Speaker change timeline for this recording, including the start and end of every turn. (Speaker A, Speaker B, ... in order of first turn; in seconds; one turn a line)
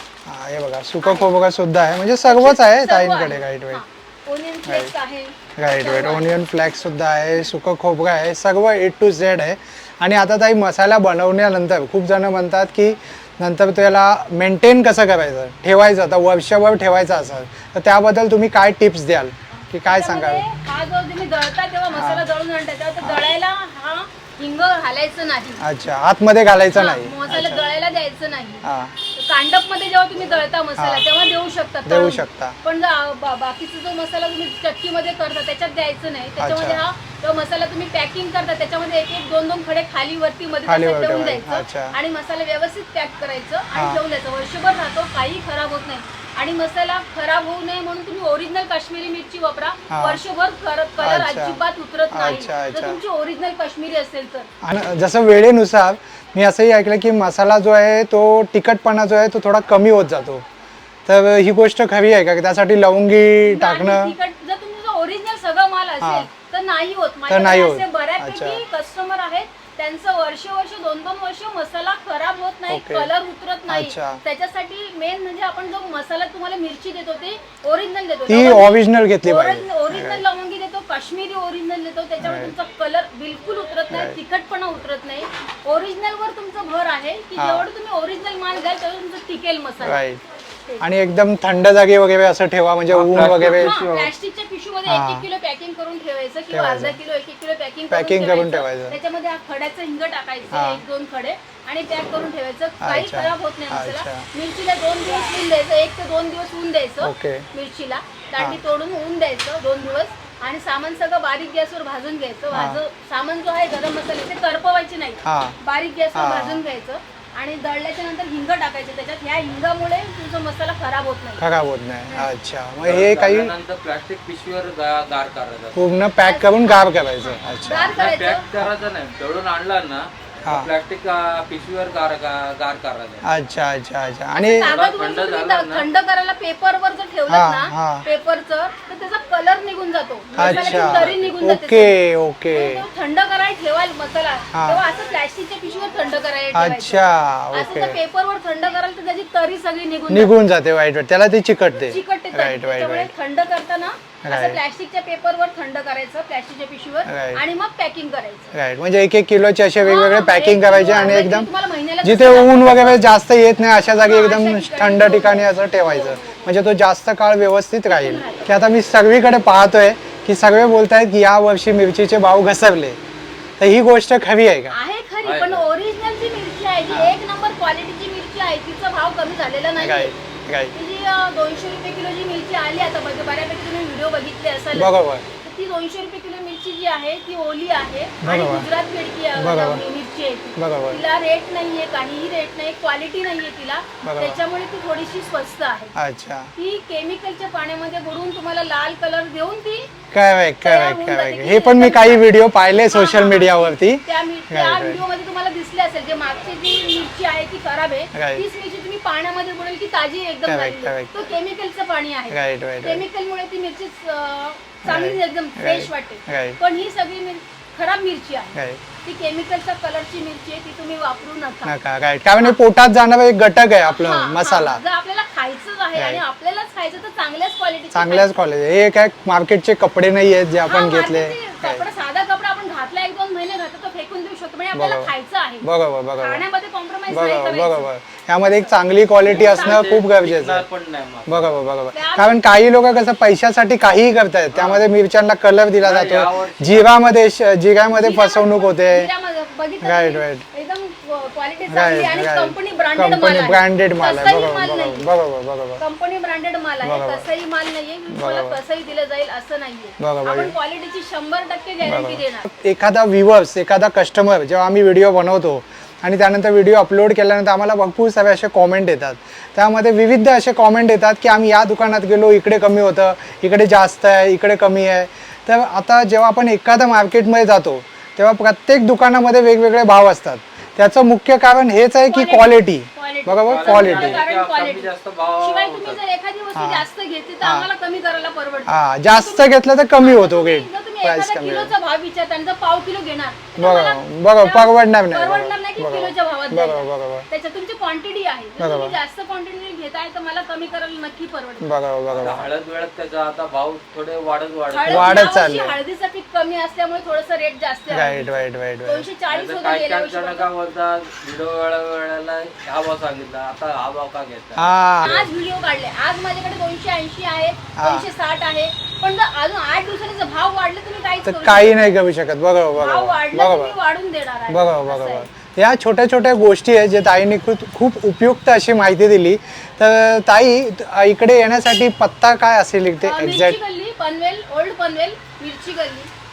Speaker A: 0.2-3.8
Speaker B: 1.0-1.3
Speaker B: 2.3-6.4
Speaker A: 4.7-4.9
Speaker A: 5.6-20.4
Speaker B: 19.9-25.6
Speaker A: 21.9-22.2
Speaker A: 25.6-27.7
Speaker B: 26.7-54.5
Speaker A: 28.6-28.9
Speaker A: 30.8-31.1
Speaker A: 31.9-32.6
Speaker A: 36.4-36.8
Speaker A: 40.7-42.0
Speaker A: 43.8-44.0
Speaker A: 49.9-50.2
Speaker A: 51.0-51.6
Speaker A: 52.1-53.0
Speaker A: 54.6-60.4
Speaker A: 61.1-64.2
Speaker B: 63.4-90.0
Speaker A: 66.0-66.3
Speaker A: 67.3-68.6
Speaker A: 72.7-73.1
Speaker A: 73.7-74.2
Speaker A: 78.3-80.2
Speaker A: 82.2-82.5
Speaker A: 83.9-84.2
Speaker A: 87.4-87.7
Speaker A: 89.8-90.2
Speaker A: 90.8-93.8
Speaker C: 92.9-94.1
Speaker B: 93.4-121.4
Speaker A: 94.9-95.3
Speaker A: 96.5-97.0
Speaker A: 97.9-99.0
Speaker A: 100.5-100.8
Speaker A: 102.8-104.3
Speaker A: 107.0-107.5
Speaker A: 112.5-112.8
Speaker A: 115.2-115.6
Speaker A: 116.1-116.6
Speaker A: 121.4-123.5
Speaker C: 122.8-125.8
Speaker A: 125.8-128.0
Speaker B: 126.2-128.5
Speaker C: 127.9-133.3
Speaker A: 130.4-130.7
Speaker A: 133.2-134.7
Speaker B: 134.3-142.0
Speaker C: 134.6-135.9
Speaker A: 137.3-138.1
Speaker C: 140.3-141.4
Speaker A: 140.4-142.8
Speaker B: 142.5-150.3
Speaker A: 144.5-144.8
Speaker A: 146.5-148.0
Speaker A: 150.1-153.1
Speaker B: 151.8-158.5
Speaker A: 154.2-154.6
Speaker A: 157.1-157.4
Speaker A: 158.5-161.5
Speaker B: 159.8-163.0
Speaker A: 162.0-173.0
Speaker B: 164.0-166.6
Speaker B: 167.9-168.6
Speaker A: 173.6-174.8
Speaker B: 174.7-180.2
Speaker C: 175.2-175.7
Speaker A: 176.9-177.2
Speaker A: 179.8-180.7
Speaker B: 180.7-195.9
Speaker A: 184.7-185.2
Speaker A: 188.2-188.7
Speaker A: 189.4-189.8
Speaker A: 190.6-191.0
Speaker A: 194.0-194.4
Speaker A: 195.9-196.5
Speaker B: 196.6-199.9
Speaker A: 200.1-205.0
Speaker B: 200.6-202.3
Speaker B: 202.9-221.8
Speaker A: 208.1-208.4
Speaker A: 210.5-211.3
Speaker A: 212.3-213.0
Speaker A: 214.8-216.6
Speaker A: 218.5-218.8
Speaker A: 221.7-224.8
Speaker B: 223.9-228.3
Speaker A: 225.9-226.2
Speaker A: 227.9-231.9
Speaker B: 230.6-237.9
Speaker A: 234.7-235.1
Speaker A: 235.6-236.4
Speaker A: 237.1-240.7
Speaker B: 238.4-238.7
Speaker C: 239.2-241.6
Speaker B: 239.2-239.9
Speaker A: 241.3-249.1
Speaker B: 241.9-242.4
Speaker C: 244.5-244.9
Speaker C: 245.8-246.9
Speaker B: 247.9-255.1
Speaker A: 249.8-250.4
Speaker A: 251.7-255.8
Speaker B: 255.8-262.5
Speaker A: 256.8-257.3
Speaker A: 258.1-258.6
Speaker A: 260.0-260.6
Speaker A: 261.8-284.2
Speaker B: 282.1-301.7
Speaker C: 283.5-286.0
Speaker A: 286.6-286.9
Speaker A: 287.4-287.7
Speaker A: 288.7-291.7
Speaker A: 293.6-297.3
Speaker A: 298.6-299.0
Speaker A: 301.6-302.5
Speaker C: 302.1-305.3
Speaker B: 304.7-310.5
Speaker A: 304.9-305.8
Speaker A: 307.9-309.1
Speaker C: 309.3-315.2
Speaker A: 314.6-315.3
Speaker B: 315.0-321.9
Speaker A: 317.8-318.1
Speaker A: 321.2-323.8
Speaker B: 322.8-325.3
Speaker A: 324.5-333.6
Speaker B: 333.0-336.1